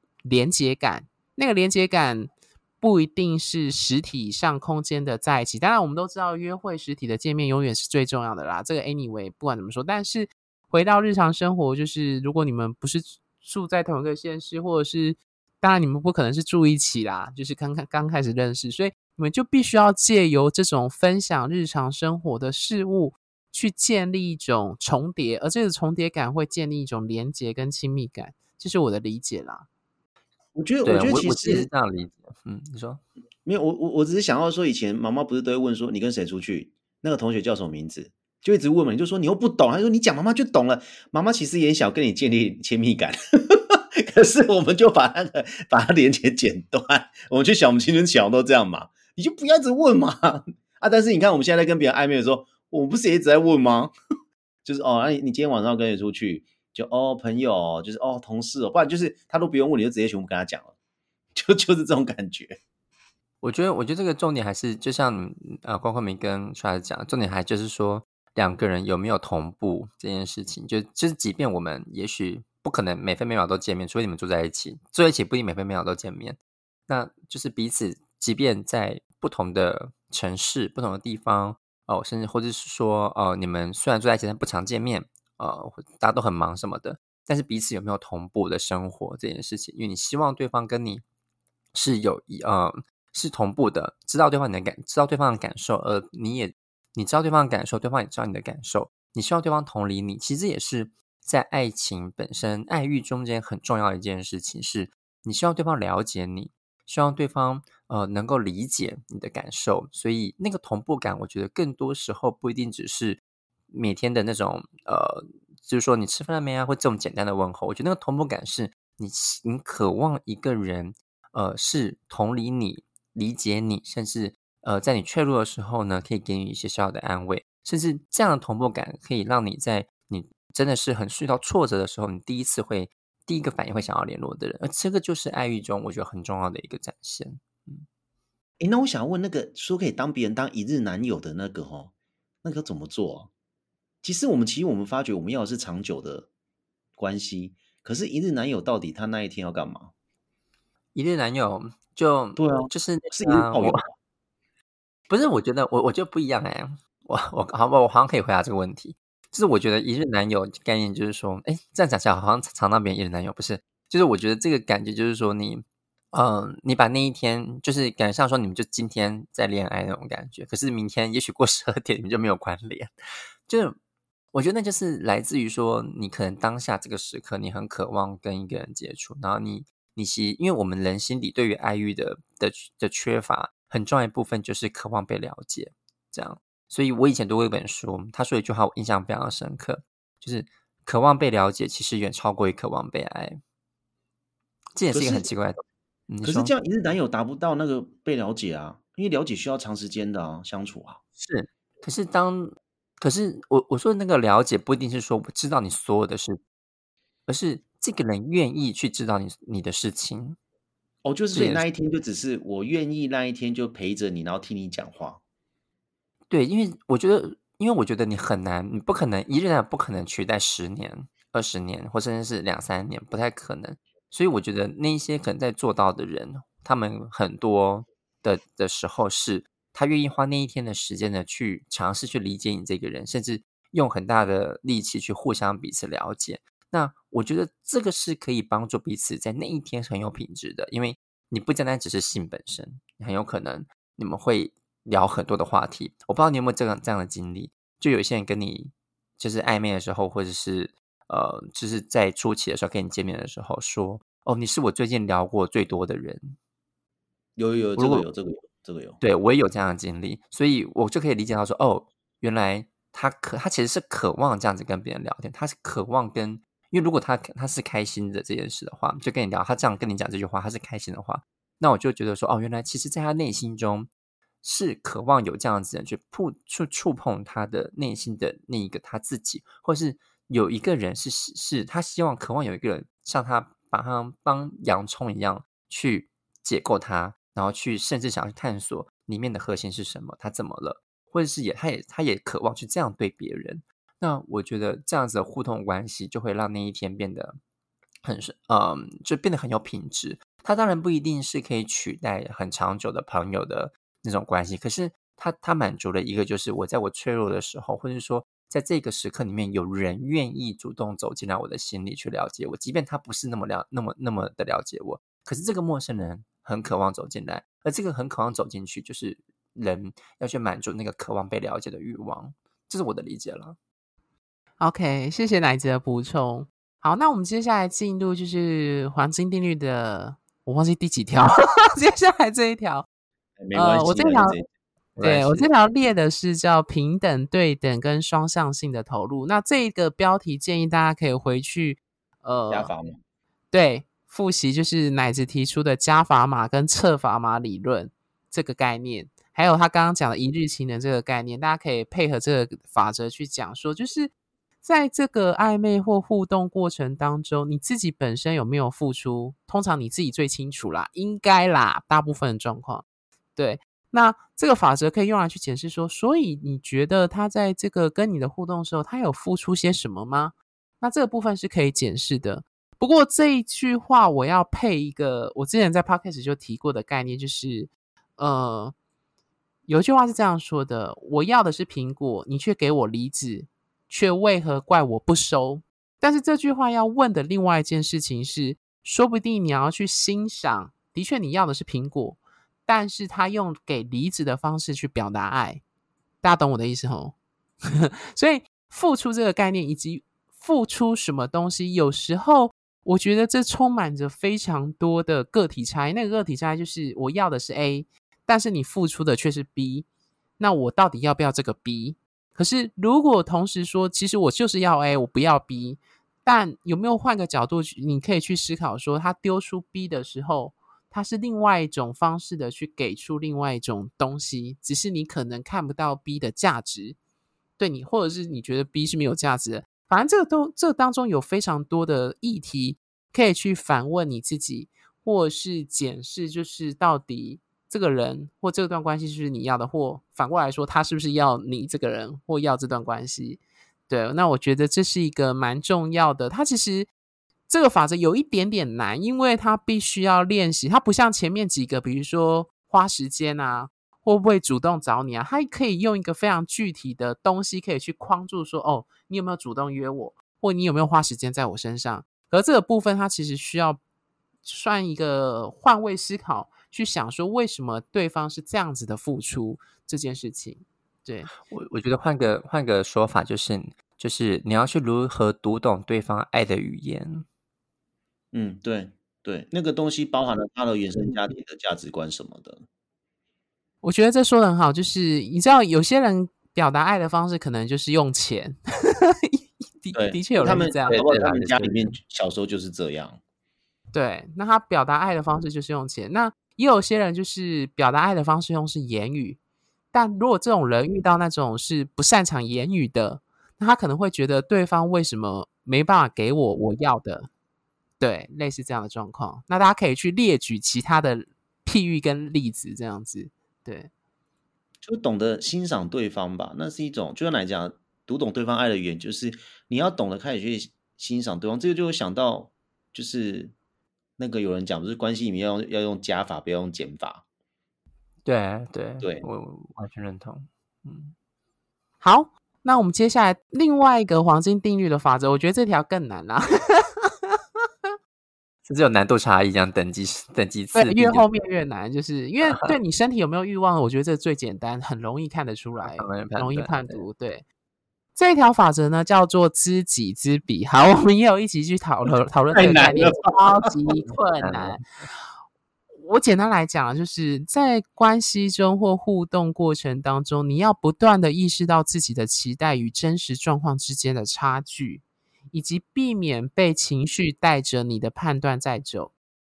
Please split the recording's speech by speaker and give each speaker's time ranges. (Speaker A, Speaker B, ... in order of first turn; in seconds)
Speaker A: 0.2-29.7, 324.6-332.9, 333.5-334.4, 335.0-342.7, 343.5-354.1, 354.6-362.8, 363.4-378.7, 379.7-395.6, 396.2-397.1, 397.7-409.9, 410.4-427.0, 427.6-446.9, 447.5-463.8, 464.4-471.3, 483.8-491.0, 493.9-499.4, 499.9-507.3, 508.0-513.9, 532.0-537.1, 540.8-547.4, 548.2-554.8, 556.0-569.1
Speaker B: 30.6-31.7, 33.5-53.9, 54.6-60.7, 61.4-62.6, 138.6-141.9, 142.4-143.3, 144.0-146.3, 147.0-149.9, 152.4-153.8, 194.9-195.3, 196.2-201.0, 211.1-215.2, 257.4-259.0, 333.4-334.5, 342.5-343.0, 478.3-482.6, 489.9-493.2, 514.9-523.5, 524.2-527.2, 552.5-553.6
Speaker C: 30.9-33.0, 63.4-91.0, 91.7-137.8, 150.9-153.8, 155.1-172.9, 173.5-173.8, 174.3-193.4, 194.8-196.5, 201.2-206.4, 207.3-210.4, 211.3-211.7, 216.3-256.4, 257.8-258.1, 259.0-273.9, 274.4-297.4, 298.0-323.6, 335.0-335.5, 471.5-477.3, 490.9-491.9, 528.2-531.1, 538.7-541.2, 542.4-542.8, 545.8-547.0, 554.4-554.9